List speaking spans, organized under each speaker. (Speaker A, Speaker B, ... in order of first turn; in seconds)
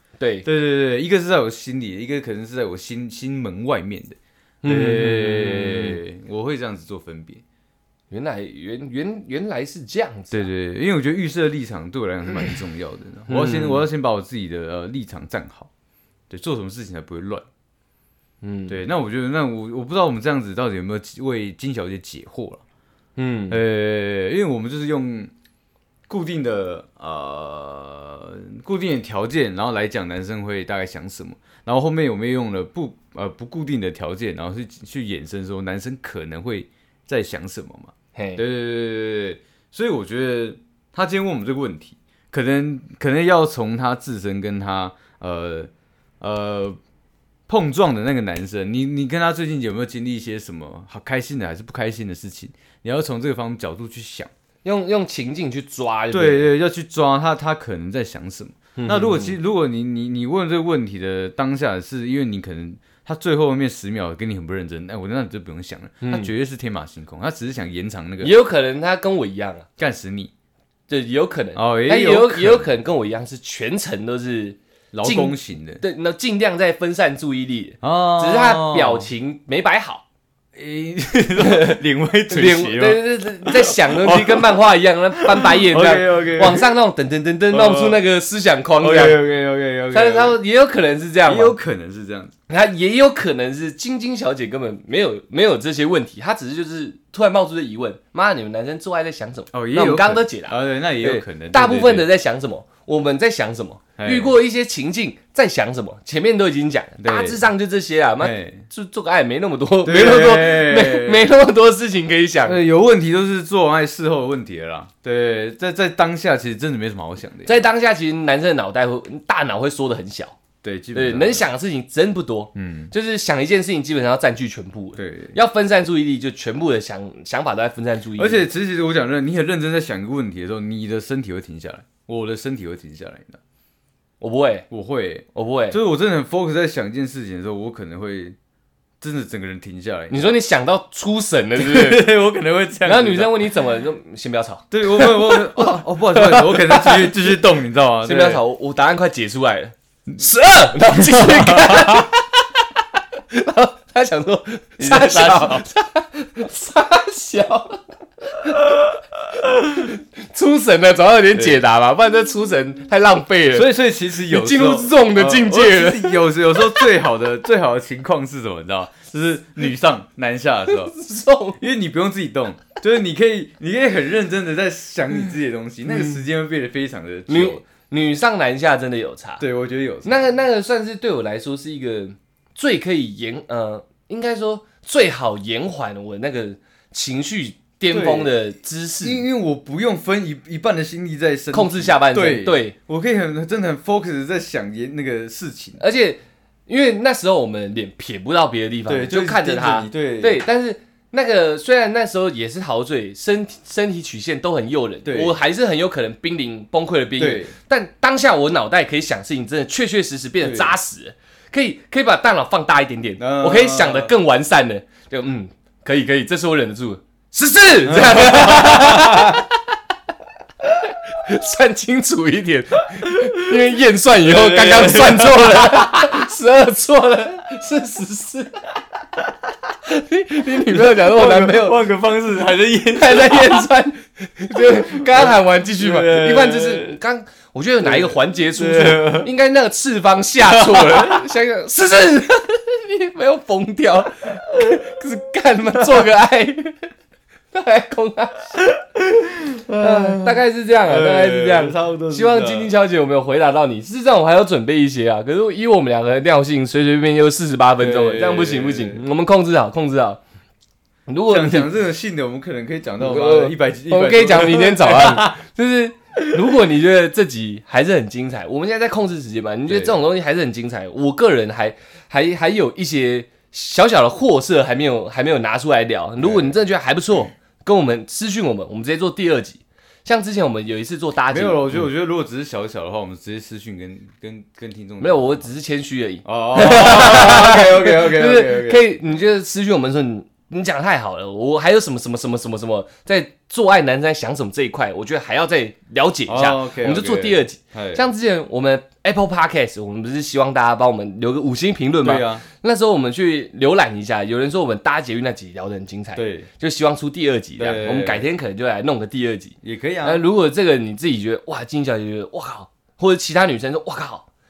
Speaker A: 0.2-0.5, 4.6-6.0, 8.1-10.5, 13.3-13.8, 18.4-18.8, 23.2-23.6, 38.1-38.4, 54.6-56.5, 58.8-59.4, 66.0-66.3, 68.2-69.7, 70.9-80.0, 81.4-81.8, 82.3-89.2, 89.9-91.6, 92.5-112.6, 117.4-120.3, 120.9-128.5, 134.2-134.7, 135.3-135.8, 140.1-142.1, 142.8-147.4, 148.0-152.4, 153.3-158.8, 159.9-166.9, 170.7-171.6, 175.9-176.2, 177.3-179.4, 180.0-189.2, 191.5-192.7, 195.8-219.5, 221.1-228.5, 229.8-231.8, 232.9-246.8, 247.5-248.6, 249.8-260.2, 261.1-261.7, 263.0-281.9, 285.0-314.2
Speaker B: 0.4-7.4, 10.3-15.7, 16.3-17.4, 18.7-22.6, 23.5-25.3, 26.1-46.8, 47.5-54.3, 56.1-68.3, 69.8-70.3, 71.5-72.7, 74.9-75.8, 77.8-79.1, 80.5-84.5, 85.2-86.7, 87.5-88.0, 88.8-90.4, 91.2-92.3, 99.5-102.0, 104.0-104.3, 107.0-107.4, 108.2-108.7, 109.8-111.3, 112.4-117.6, 120.6-121.4, 122.5-122.9, 125.0-125.3, 128.2-133.4, 134.7-138.3, 139.0-140.4, 141.6-143.5, 144.7-148.4, 150.9-152.1, 154.8-155.6, 159.4-159.9, 163.5-170.9, 171.6-177.6, 179.4-180.2, 187.9-188.4, 189.0-195.8, 198.9-200.4, 205.0-205.3, 207.2-207.5, 210.4-210.7, 213.2-214.1, 217.8-219.4, 223.1-223.6, 224.2-226.2, 230.5-233.7, 234.9-237.0, 237.8-239.3, 240.4-241.2, 244.5-244.8, 248.6-252.7, 257.8-259.0, 261.3-265.4, 269.7-270.0, 276.2-276.5, 281.3-285.4, 286.2-288.8, 296.3-298.0, 302.0-302.4, 306.1-306.5, 307.6-308.2, 309.6-310.2